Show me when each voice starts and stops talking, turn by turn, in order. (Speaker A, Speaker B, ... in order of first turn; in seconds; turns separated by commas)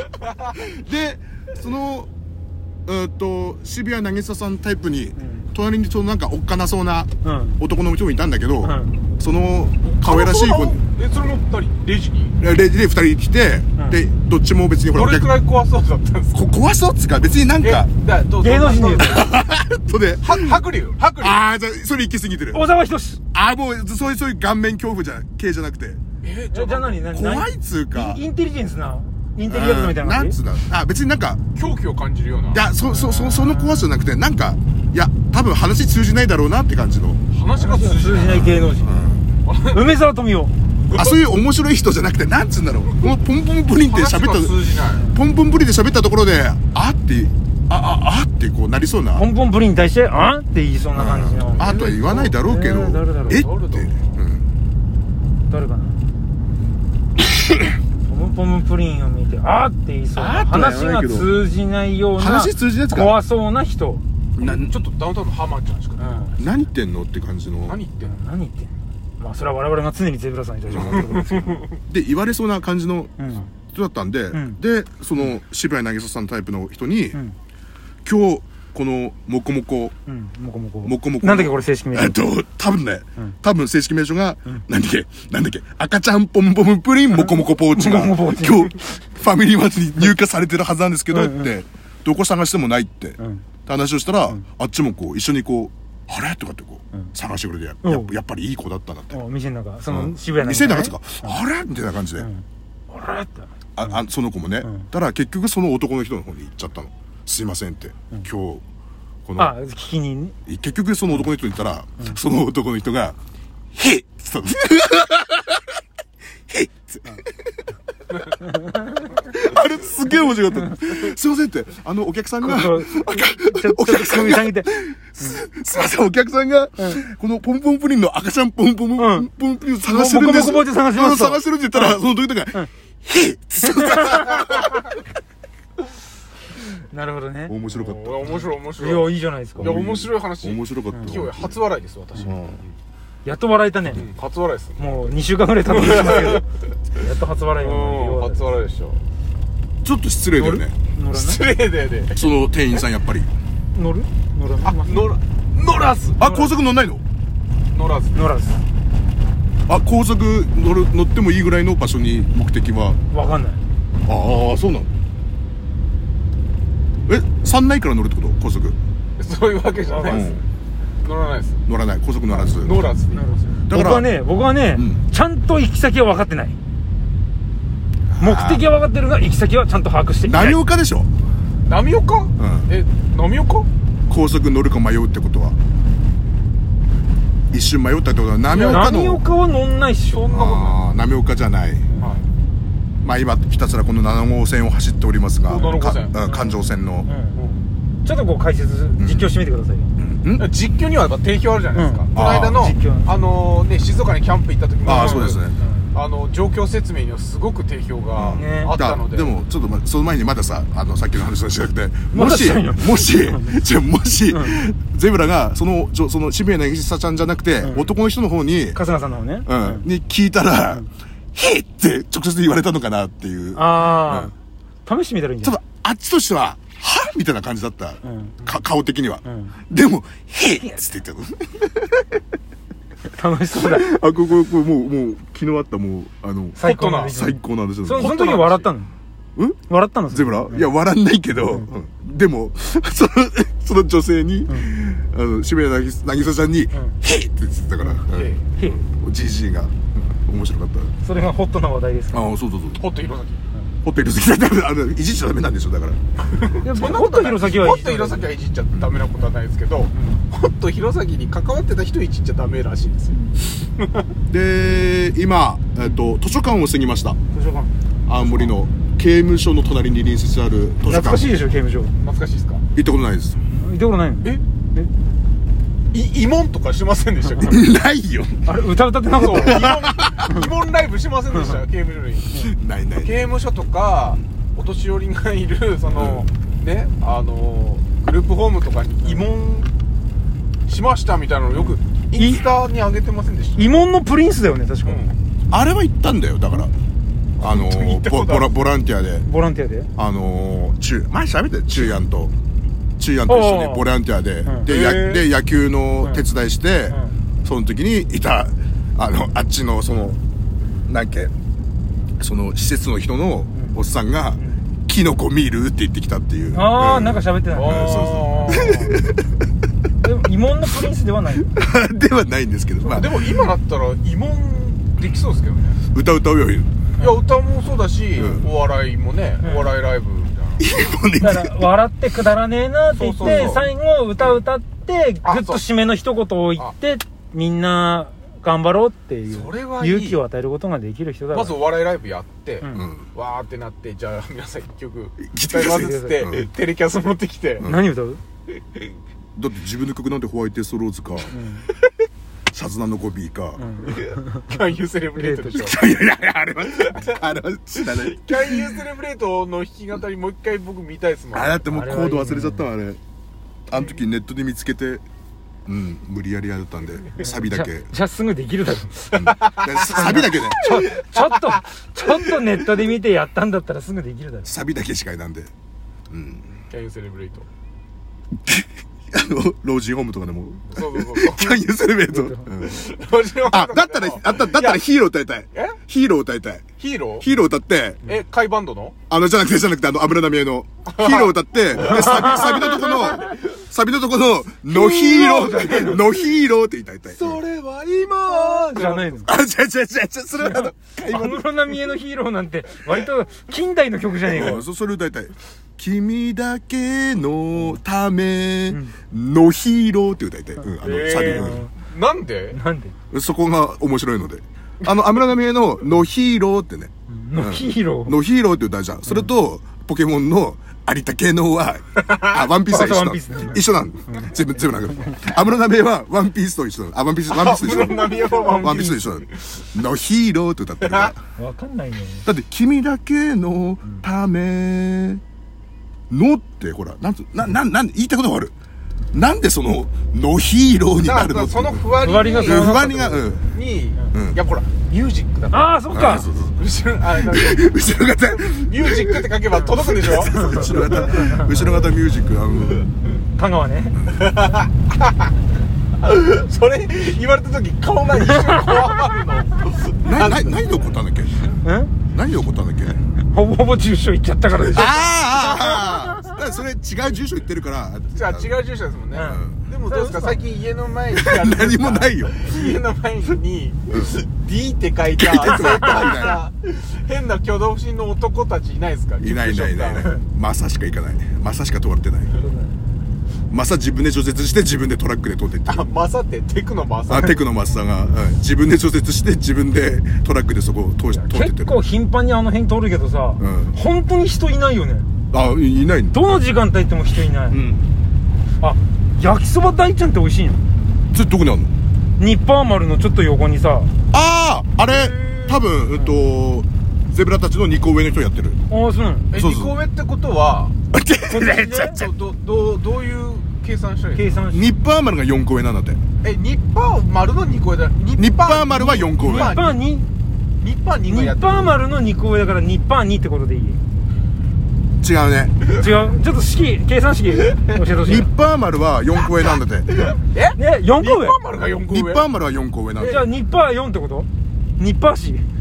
Speaker A: 0.5-2.1, Speaker A: 2.9-10.8, Speaker B: 5.2-5.5, Speaker B: 7.2-7.6, Speaker B: 8.6-8.9, Speaker C: 9.9-12.4, Speaker A: 12.4-15.3, Speaker C: 14.9-16.4, Speaker A: 16.3-17.9, Speaker C: 17.6-19.4, Speaker B: 18.4-19.3, Speaker A: 19.0-20.6, Speaker C: 20.2-21.4, Speaker A: 21.2-22.6, Speaker B: 22.5-23.2, Speaker A: 23.3-26.0, Speaker C: 26.2-27.1, Speaker B: 26.5-30.4, Speaker A: 27.1-28.2, Speaker A: 29.5-31.4, Speaker C: 31.6-32.7, Speaker A: 32.5-37.2, Speaker B: 32.8-33.9, Speaker C: 37.3-38.7, Speaker B: 37.5-39.1, Speaker A: 38.3-39.2, Speaker C: 39.5-39.9, Speaker B: 39.7-40.5, Speaker C: 40.9-41.2, Speaker A: 41.0-44.6, Speaker C: 43.9-45.1, Speaker A: 45.1-49.3, Speaker B: 49.1-51.8, Speaker A: 51.0-54.5, Speaker C: 51.4-52.4, Speaker B: 52.4-53.5, Speaker C: 53.3-54.1, Speaker B: 55.4-56.0, Speaker B: 58.0-64.0, Speaker A: 60.2-61.4, Speaker A: 62.2-63.2, Speaker A: 64.4-64.7, Speaker C: 64.4-66.4, Speaker B: 66.0-66.4, Speaker A: 66.4-67.8, Speaker C: 67.7-68.1, Speaker B: 68.0-71.6, Speaker A: 70.7-71.1, Speaker C: 70.8-71.7, Speaker A: 71.9-77.2, Speaker B: 73.2-73.5, Speaker B: 74.3-74.6, Speaker A: 78.0-79.9, Speaker B: 80.1-82.2, Speaker A: 80.8-99.2, Speaker B: 87.2-88.8, Speaker B: 91.1-91.5, Speaker B: 93.2-93.5, Speaker B: 97.8-98.1, Speaker B: 99.1-101.3, Speaker A: 99.9-102.3, Speaker B: 102.2-103.5, Speaker A: 103.8-108.6, Speaker A: 109.3-109.5, Speaker B: 109.4-110.4, Speaker A: 110.5-113.2, Speaker A: 113.7-115.6, Speaker A: 116.5-117.3, Speaker B: 118.5-118.9, Speaker A: 119.2-134.9, Speaker B: 122.4-125.4, Speaker B: 129.0-129.3, Speaker B: 129.9-132.0, Speaker B: 133.6-134.4, Speaker B: 136.9-137.6, Speaker A: 137.5-138.4, Speaker C: 137.7-142.6, Speaker B: 138.2-139.8, Speaker A: 139.6-141.6, Speaker A: 142.2-142.6, Speaker B: 143.2-144.0, Speaker C: 143.9-144.8, Speaker B: 144.8-148.5, Speaker C: 145.7-146.5, Speaker C: 147.6-149.0, Speaker A: 149.8-150.8, Speaker B: 150.4-151.4, Speaker C: 151.1-152.3, Speaker A: 152.1-153.3, Speaker B: 153.8-155.1, Speaker C: 154.6-156.2, Speaker A: 156.2-157.0, Speaker B: 156.2-156.5, Speaker C: 157.7-158.3, Speaker B: 158.2-158.6, Speaker A: 159.7-163.0, Speaker B: 163.1-163.6, Speaker A: 164.1-164.9, Speaker A: 167.1-168.8, Speaker C: 169.2-170.4, Speaker B: 169.9-170.3, Speaker A: 170.1-170.4, Speaker C: 171.0-171.6, Speaker A: 171.7-172.8, Speaker C: 172.3-173.6, Speaker B: 173.1-176.6, Speaker A: 173.7-174.1, Speaker A: 174.8-175.0, Speaker A: 178.1-178.6, Speaker B: 178.2-180.6, Speaker A: 180.2-181.1, Speaker C: 181.7-183.7, Speaker A: 182.4-182.7, Speaker A: 184.1-185.6, Speaker A: 187.5-189.2, Speaker C: 188.5-188.9, Speaker B: 188.6-190.3, Speaker C: 190.1-190.8, Speaker A: 190.3-191.9, Speaker B: 191.9-192.2, Speaker A: 193.0-197.1, Speaker C: 195.5-196.2, Speaker B: 196.2-197.4, Speaker C: 197.3-197.7, Speaker B: 198.0-199.9, Speaker A: 199.0-199.3, Speaker A: 200.0-200.5, Speaker C: 200.4-209.3, Speaker B: 201.8-203.3, Speaker A: 202.1-202.6, Speaker A: 204.8-205.6, Speaker B: 204.9-205.3, Speaker A: 208.2-218.8, Speaker B: 208.3-208.8, Speaker B: 212.1-213.6, Speaker B: 214.3-214.6, Speaker B: 217.6-217.9, Speaker B: 218.8-219.9, Speaker A: 219.5-224.3, Speaker B: 223.6-224.3, Speaker B: 224.8-225.6, Speaker A: 225.4-232.2, Speaker B: 228.0-228.4, Speaker B: 229.2-229.6, Speaker B: 233.1-233.9, Speaker A: 233.6-238.4, Speaker B: 236.6-238.9, Speaker C: 236.6-237.2, Speaker C: 238.0-238.7, Speaker B: 239.7-240.7, Speaker A: 240.1-250.9, Speaker C: 248.1-248.4, Speaker B: 248.6-248.8, Speaker B: 251.0-252.3, Speaker A: 252.1-252.8, Speaker C: 252.8-253.4, Speaker A: 253.8-256.0, Speaker C: 256.3-264.1, Speaker B: 256.6-258.3, Speaker B: 259.9-260.2, Speaker A: 264.3-267.2, Speaker B: 267.3-267.7, Speaker A: 268.1-271.3, Speaker C: 268.2-268.6, Speaker B: 270.9-271.9, Speaker C: 272.0-272.6, Speaker A: 272.8-273.4, Speaker B: 273.5-274.9, Speaker C: 275.9-277.7, Speaker A: 277.4-278.5, Speaker B: 278.4-279.7, Speaker C: 279.1-282.4, Speaker A: 279.2-280.4, Speaker B: 281.3-281.6, Speaker A: 282.4-283.2, Speaker C: 283.0-289.7, Speaker A: 285.9-286.2, Speaker C: 290.7-293.9, Speaker B: 291.5-292.4, Speaker B: 293.6-295.1, Speaker C: 294.9-295.2, Speaker A: 295.5-296.7, Speaker C: 297.4-298.6, Speaker A: 297.4-299.3, Speaker B: 299.2-299.9, Speaker A: 300.0-302.3, Speaker A: 303.0-310.2, Speaker B: 303.3-303.9, Speaker C: 304.7-305.3, Speaker B: 306.9-307.2, Speaker A: 310.9-311.3, Speaker A: 312.2-319.3, Speaker B: 316.5-319.0, Speaker C: 317.5-318.9, Speaker B: 320.0-321.6, Speaker A: 321.4-323.4, Speaker C: 322.8-325.8, Speaker A: 325.9-326.7, Speaker C: 327.0-330.8, Speaker A: 328.2-328.5, Speaker B: 329.4-329.7, Speaker A: 330.6-331.7, Speaker B: 331.2-341.6, Speaker C: 332.9-333.7, Speaker A: 333.2-333.6, Speaker C: 335.2-335.7, Speaker C: 339.3-340.2, Speaker C: 341.3-347.7, Speaker B: 342.6-342.9, Speaker A: 342.7-343.1, Speaker A: 345.3-346.5, Speaker B: 345.6-346.2, Speaker B: 347.6-348.2, Speaker A: 349.4-351.3, Speaker B: 351.3-351.7, Speaker A: 352.5-353.6, Speaker B: 353.6-354.5, Speaker C: 353.8-355.8, Speaker B: 355.2-355.7, Speaker A: 355.5-358.8, Speaker C: 356.7-357.2, Speaker C: 357.8-361.6, Speaker A: 361.3-363.0, Speaker B: 361.6-362.7, Speaker A: 363.7-365.0, Speaker A: 365.7-367.9, Speaker B: 367.2-369.2, Speaker C: 369.1-370.1, Speaker A: 369.1-370.9, Speaker B: 369.9-374.5, Speaker C: 370.6-371.6, Speaker A: 374.5-375.5, Speaker A: 376.1-376.5, Speaker C: 376.7-377.5, Speaker A: 378.5-382.8, Speaker C: 380.7-381.6, Speaker B: 382.1-382.6, Speaker C: 382.6-384.8, Speaker A: 383.4-386.7, Speaker C: 386.8-387.3, Speaker A: 387.2-388.1, Speaker C: 388.0-389.0, Speaker A: 389.1-397.4, Speaker C: 390.9-393.4, Speaker B: 391.8-392.7, Speaker B: 394.7-396.1, Speaker C: 397.1-399.2, Speaker B: 398.3-399.3, Speaker A: 399.2-401.8, Speaker B: 400.4-404.7, Speaker A: 404.3-411.6, Speaker B: 408.7-408.9, Speaker B: 410.6-411.7, Speaker C: 410.8-412.6, Speaker B: 412.5-413.0, Speaker A: 413.1-431.2, Speaker B: 417.1-418.2, Speaker C: 422.1-422.4, Speaker B: 422.7-423.7, Speaker C: 427.3-429.4, Speaker B: 428.1-429.1, Speaker C: 430.8-431.1, Speaker B: 431.4-432.2, Speaker A: 432.2-435.2, Speaker A: 436.1-438.5, Speaker A: 439.1-443.5, Speaker C: 441.0-451.2, Speaker B: 442.0-443.1, Speaker A: 444.1-444.4, Speaker B: 445.5-446.3, Speaker A: 445.9-446.6, Speaker A: 447.1-452.9, Speaker B: 450.3-451.6, Speaker B: 453.3-454.0, Speaker C: 454.1-455.3, Speaker C: 456.0-460.8, Speaker B: 458.1-458.8, Speaker A: 460.0-461.4, Speaker B: 461.6-461.9, Speaker A: 462.1-463.0, Speaker B: 463.3-466.2, Speaker C: 464.6-464.9, Speaker A: 464.7-468.5, Speaker C: 468.1-480.1, Speaker B: 469.1-470.4, Speaker A: 469.2-469.6, Speaker A: 471.1-472.6, Speaker A: 475.2-476.4, Speaker A: 479.2-482.3, Speaker B: 482.3-482.8, Speaker A: 483.5-485.9, Speaker C: 485.7-487.4, Speaker A: 487.1-491.8, Speaker B: 491.1-495.1, Speaker A: 493.4-493.8, Speaker A: 495.3-496.2, Speaker B: 496.1-497.6, Speaker A: 497.5-497.9, Speaker B: 498.6-500.6, Speaker A: 501.1-501.7, Speaker B: 502.2-503.9, Speaker A: 504.1-508.6, Speaker C: 504.9-505.6, Speaker B: 508.7-509.3, Speaker C: 509.3-510.8, Speaker A: 509.4-509.7, Speaker A: 510.9-512.1, Speaker B: 511.3-512.0, Speaker C: 511.9-514.4, Speaker B: 514.2-514.7, Speaker A: 514.5-516.0, Speaker C: 516.2-519.8, Speaker A: 518.2-519.6, Speaker B: 519.2-520.1, Speaker C: 520.6-521.8, Speaker B: 521.1-523.8, Speaker A: 525.0-525.5, Speaker B: 525.6-528.3, Speaker A: 528.0-529.9, Speaker C: 530.0-532.2, Speaker B: 530.6-531.4, Speaker A: 531.8-533.2, Speaker B: 533.0-535.4